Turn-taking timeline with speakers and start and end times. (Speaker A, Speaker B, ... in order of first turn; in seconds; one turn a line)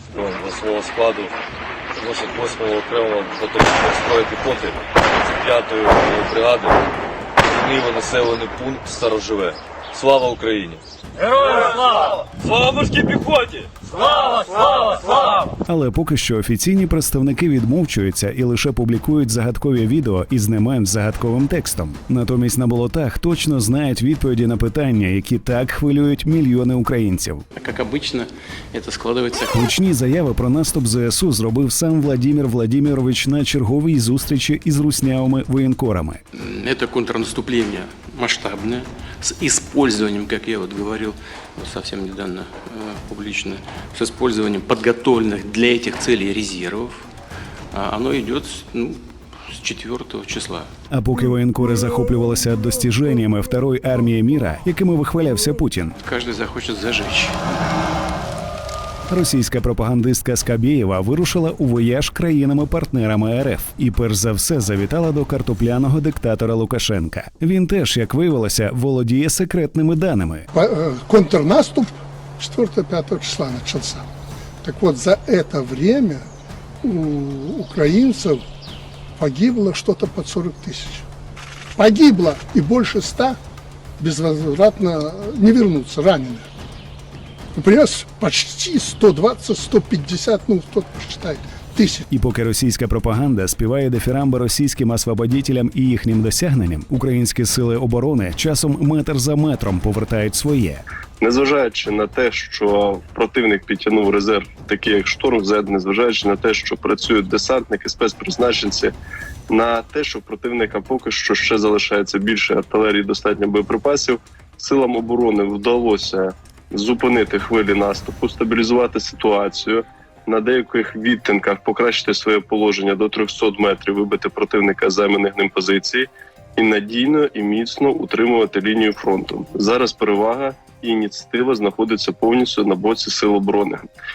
Speaker A: 0.1-1.3
Speaker A: 1.9-6.8
Speaker A: 7.4-15.2
Speaker B: 15.7-27.4
Speaker C: 27.5-29.7
Speaker B: 29.5-36.2
Speaker C: 36.3-47.1
Speaker C: 47.7-50.7
Speaker B: 50.9-56.0
Speaker C: 56.0-57.8
Speaker B: 59.1-70.5
Speaker D: 70.5-74.1
Speaker D: 74.6-76.3
Speaker D: 76.8-78.4
Speaker D: 79.2-81.0
Speaker D: 81.8-83.4
Speaker D: 84.0-86.4
Speaker D: 87.5-92.0
Speaker B: 92.1-100.8
Speaker E: 101.2-108.9
Speaker E: 109.5-133.8